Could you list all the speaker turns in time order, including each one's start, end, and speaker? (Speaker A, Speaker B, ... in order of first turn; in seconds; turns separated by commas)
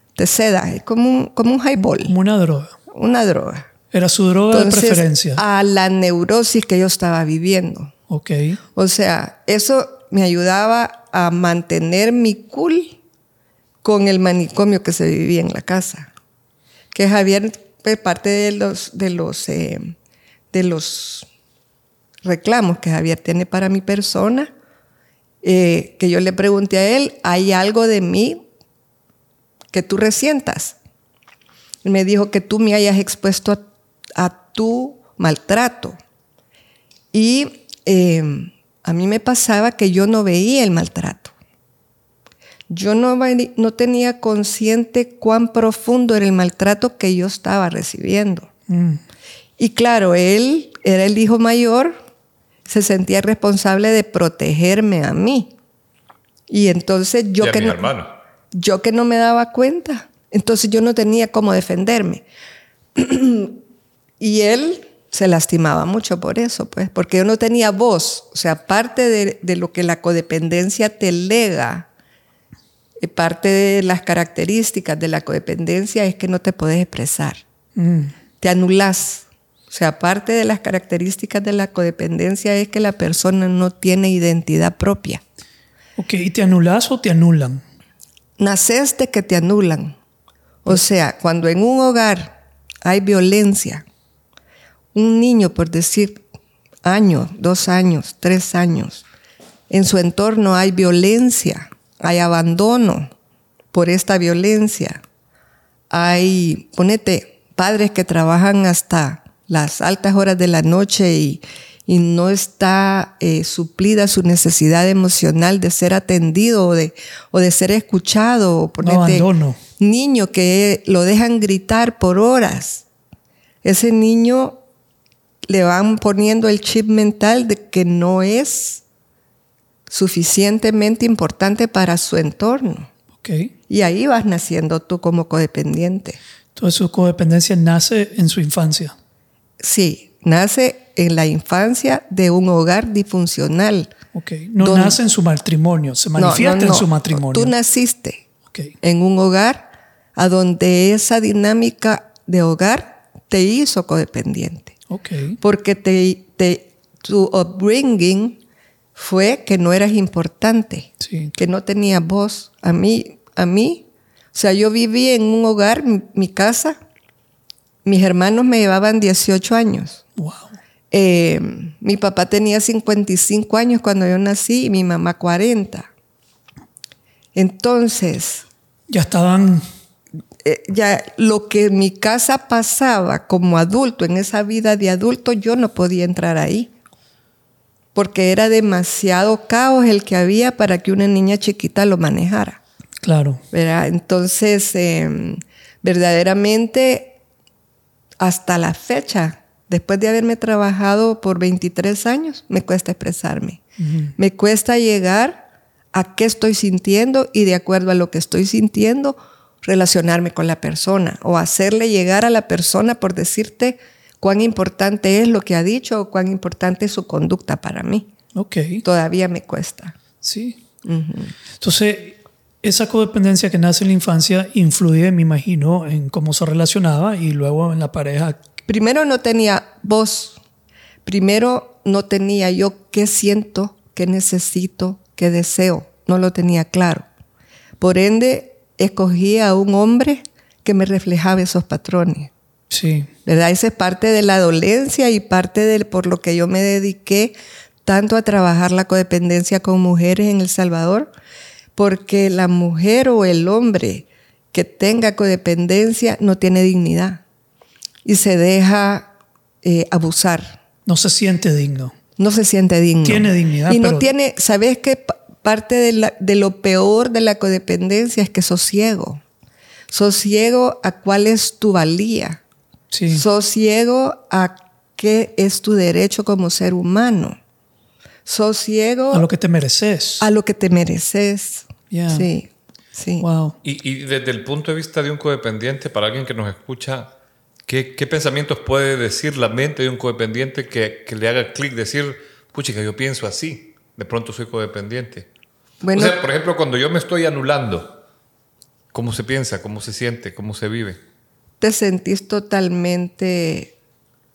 Speaker A: 0.2-2.1, Speaker B: 2.0-2.7, Speaker A: 2.9-3.7, Speaker B: 3.9-5.4, Speaker A: 4.5-7.9, Speaker B: 8.1-8.6, Speaker A: 8.8-13.0, Speaker A: 13.8-16.1, Speaker A: 16.9-19.9, Speaker A: 20.5-21.3, Speaker A: 22.2-24.5, Speaker A: 25.4-28.4, Speaker A: 29.7-30.8, Speaker A: 31.8-33.6, Speaker A: 34.1-36.0, Speaker A: 37.1-41.3, Speaker A: 42.7-48.5, Speaker B: 48.7-49.0, Speaker A: 49.6-52.0, Speaker A: 52.7-55.5, Speaker A: 56.5-57.9, Speaker C: 57.4-58.1, Speaker A: 58.5-62.3, Speaker A: 63.0-63.6, Speaker A: 64.2-71.9, Speaker A: 73.0-77.4, Speaker B: 77.8-78.1, Speaker A: 78.4-85.2, Speaker B: 86.0-87.6, Speaker A: 88.4-90.0, Speaker A: 90.6-93.8, Speaker A: 94.9-96.2, Speaker A: 96.8-99.0, Speaker A: 99.7-103.1, Speaker A: 103.7-105.0, Speaker A: 105.9-119.3, Speaker B: 118.8-119.6, Speaker A: 119.8-122.8, Speaker A: 123.6-124.6, Speaker A: 125.5-128.8, Speaker A: 129.9-132.9, Speaker B: 133.2-133.5, Speaker A: 133.7-136.2, Speaker B: 136.6-138.9, Speaker A: 139.6-143.9, Speaker B: 144.1-147.5, Speaker A: 144.6-145.0, Speaker A: 146.2-148.2, Speaker A: 148.8-154.8, Speaker B: 154.9-155.4, Speaker A: 155.4-158.4, Speaker A: 159.0-166.8, Speaker B: 161.0-161.3, Speaker A: 167.8-170.0, Speaker B: 170.2-170.5, Speaker A: 170.9-175.9, Speaker A: 177.3-178.4, Speaker B: 178.9-179.6, Speaker A: 180.4-186.7, Speaker A: 187.9-192.6, Speaker B: 193.0-193.4, Speaker A: 193.5-197.2, Speaker A: 198.2-203.6, Speaker B: 203.8-204.1, Speaker A: 204.2-218.1, Speaker B: 218.3-218.8, Speaker A: 218.8-219.9, Speaker B: 220.2-220.6, Speaker A: 220.8-221.3, Speaker B: 221.6-228.4, Speaker A: 228.7-230.4, Speaker A: 231.1-237.1, Speaker A: 237.8-242.3, Speaker B: 242.7-243.1, Speaker A: 243.3-251.1, Speaker A: 251.8-257.2, Speaker A: 258.1-259.1, Speaker A: 259.6-260.6, Speaker B: 260.9-261.9, Speaker A: 262.2-269.2, Speaker B: 263.0-264.1, Speaker A: 269.9-272.4, Speaker B: 272.9-273.2, Speaker A: 273.1-277.4, Speaker A: 278.3-279.3, Speaker B: 279.1-280.3, Speaker A: 280.2-283.2, Speaker B: 281.9-282.3, Speaker B: 283.2-283.6, Speaker C: 283.6-287.1, Speaker C: 287.7-295.3, Speaker A: 295.8-296.2, Speaker C: 295.9-298.0, Speaker C: 298.9-301.0, Speaker A: 301.6-303.7